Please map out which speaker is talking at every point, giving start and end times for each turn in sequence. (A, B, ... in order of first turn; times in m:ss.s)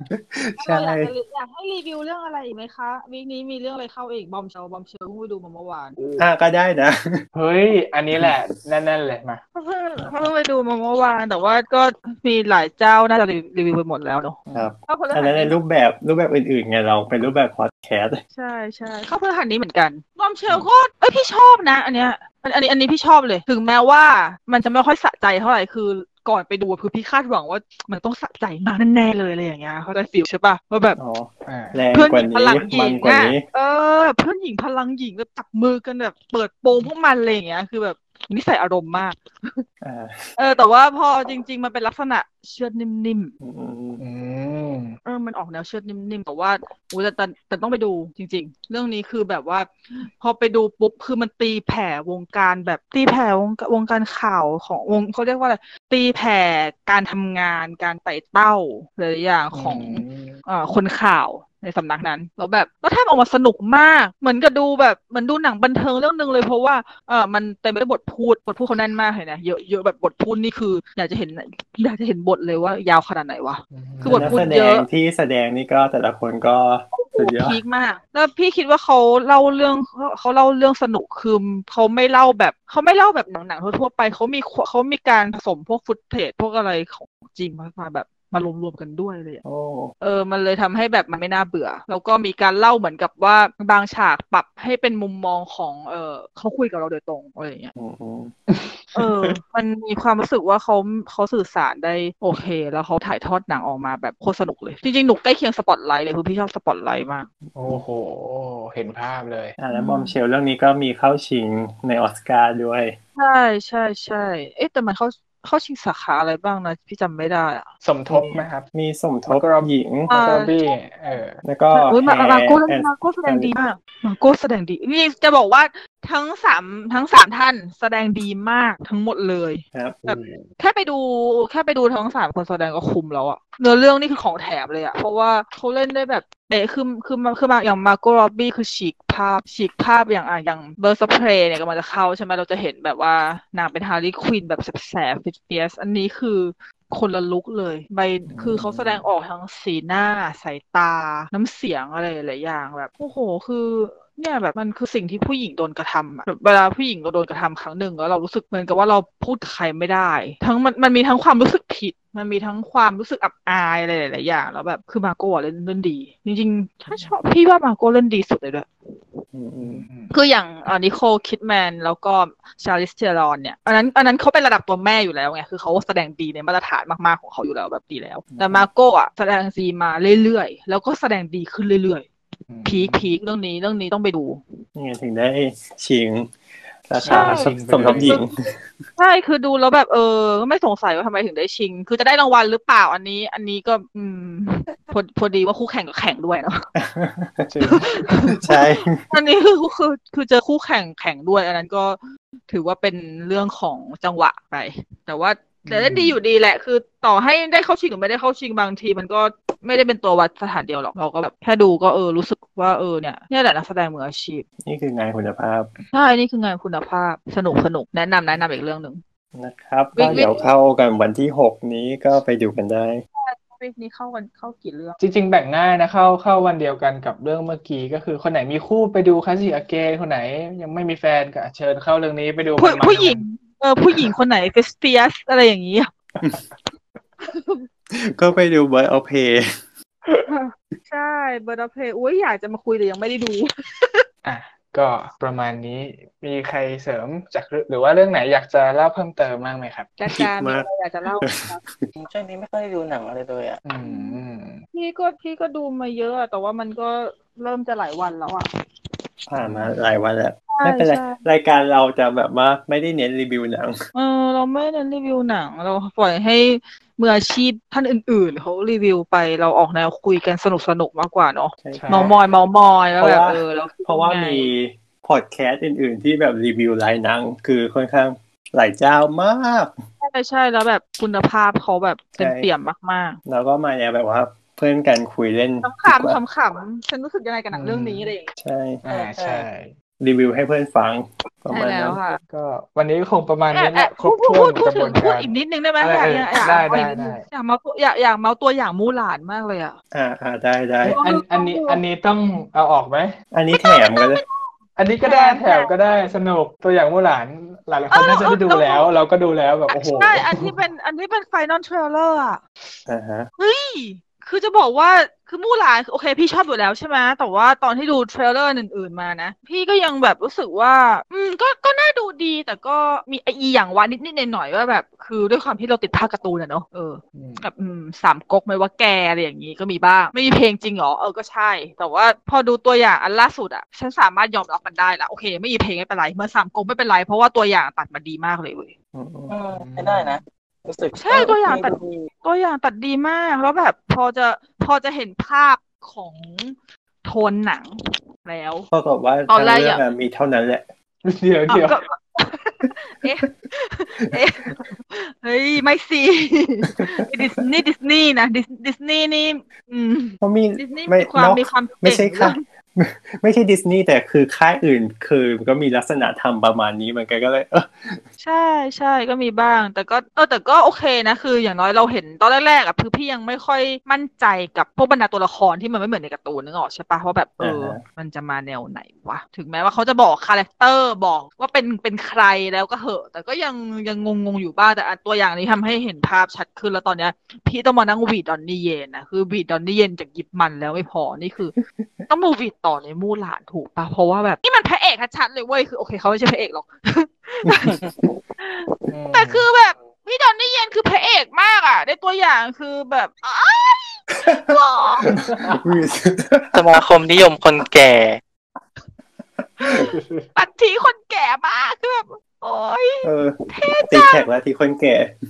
0:00.1-0:01.1 A
0:00.6-0:06.0 B
0:06.0-0:06.3 C
0:06.2-0:07.2 A
0:07.3-0:09.4 C
0:09.6-0:15.6 B
0:14.5-0:18.2 A
0:18.3-0:31.0 B
0:31.0-0:33.4 A
0:31.4-0:31.8 C
0:31.9-0:39.6 B
0:39.8-0:40.4 A
0:40.4-0:43.3 B
0:43.4-0:44.0 A
0:44.0-0:45.0 C
0:45.0-1:14.9 B
0:59.5-1:00.4 C
1:13.7-1:14.5 C
1:14.1-1:17.6 A
1:16.9-1:29.4 B
1:29.4-1:29.9 A
1:30.0-1:37.7 B
1:37.8-1:38.4 A
1:38.5-1:39.0 C
1:39.0-1:47.3 B
1:47.6-1:49.6 C
1:49.6-1:53.0 A
1:49.7-1:50.1 B
1:53.2-1:57.7 B
1:57.8-1:58.7 C
1:58.1-2:00.1 A
1:59.3-2:01.4 C
2:00.1-2:00.5 B
2:01.4-2:03.5 A
2:01.7-2:49.2 B
2:09.7-2:10.0 A
2:10.0-2:10.5 C
2:28.3-2:29.1 C
2:49.3-2:49.9 A
2:49.6-2:50.1 C
2:50.1-3:02.1 B
2:58.3-2:58.6 A
3:02.5-3:03.1 C
3:02.7-3:04.4 B
3:04.8-3:06.3 A
3:06.9-3:08.6 A
3:07.0-3:08.2 C
3:07.0-3:08.2 B
3:09.0-3:16.7 B
3:16.8-3:17.5 A
3:17.5-3:18.2 C
3:17.7-3:34.4 B
3:18.2-3:19.1 A
3:25.7-3:26.2 C
3:34.6-3:35.7 A
3:35.9-3:39.0 B
3:39.4-3:43.0 A
3:40.0-3:40.5 B
3:43.2-3:45.0 B
3:45.0-3:53.2 C
3:52.6-3:55.9 B
3:57.2-3:57.7 B
3:57.9-3:59.6 A
4:00.3-4:04.0 B
4:04.2-4:09.9 C
4:10.0-4:11.6 B
4:10.1-4:10.7 A
4:11.2-4:11.9 A
4:12.0-4:13.6 D
4:13.6-4:14.6 C
4:13.8-4:14.2 B
4:14.7-4:18.5 B
4:19.3-4:23.8 A
4:19.4-4:19.8 C
4:20.5-4:21.2 B
4:23.9-4:34.5 B
4:31.6-4:32.2 A
4:31.7-4:32.1 C
4:33.0-4:39.8 A
4:40.0-4:43.2 B
4:42.2-4:42.5 A
4:43.3-4:46.2 A
4:45.6-4:48.3 B
4:47.5-4:48.1 C
4:48.4-4:48.8 A
4:48.8-4:49.7 C
4:48.9-4:49.5 D
4:50.0-4:52.0 A
4:51.5-4:52.2 B
4:52.3-4:57.2 C
4:53.5-4:59.8 B
4:59.9-5:01.0 A
5:00.8-5:03.2 C
5:00.9-5:01.8 B
5:03.3-5:04.2 A
5:03.5-5:04.4 B
5:04.8-5:10.5 C
5:05.0-5:05.7 B
5:07.9-5:08.9 B
5:09.7-5:12.4 B
5:12.9-5:13.3 A
5:13.4-5:38.7 B
5:27.2-5:27.4 C
5:38.9-5:39.3 A
5:39.3-5:42.1 D
5:39.5-5:40.2 C
5:41.0-5:48.7 B
5:48.7-5:50.7 A
5:49.3-5:49.8 B
5:51.0-5:51.8 C
5:51.5-6:02.4 B
6:00.2-6:08.0 A
6:08.2-6:31.6 B
6:17.4-6:17.8 A
6:32.1-6:37.8 B
6:37.6-6:37.9 D
6:38.4-6:45.1 B
6:38.9-6:39.5 C
6:45.1-6:46.6 A
6:45.2-6:45.7 C
6:46.5-6:48.2 D
6:49.4-6:49.9 A
6:49.6-6:54.3 B
6:49.9-6:50.3 C
6:53.0-6:55.1 A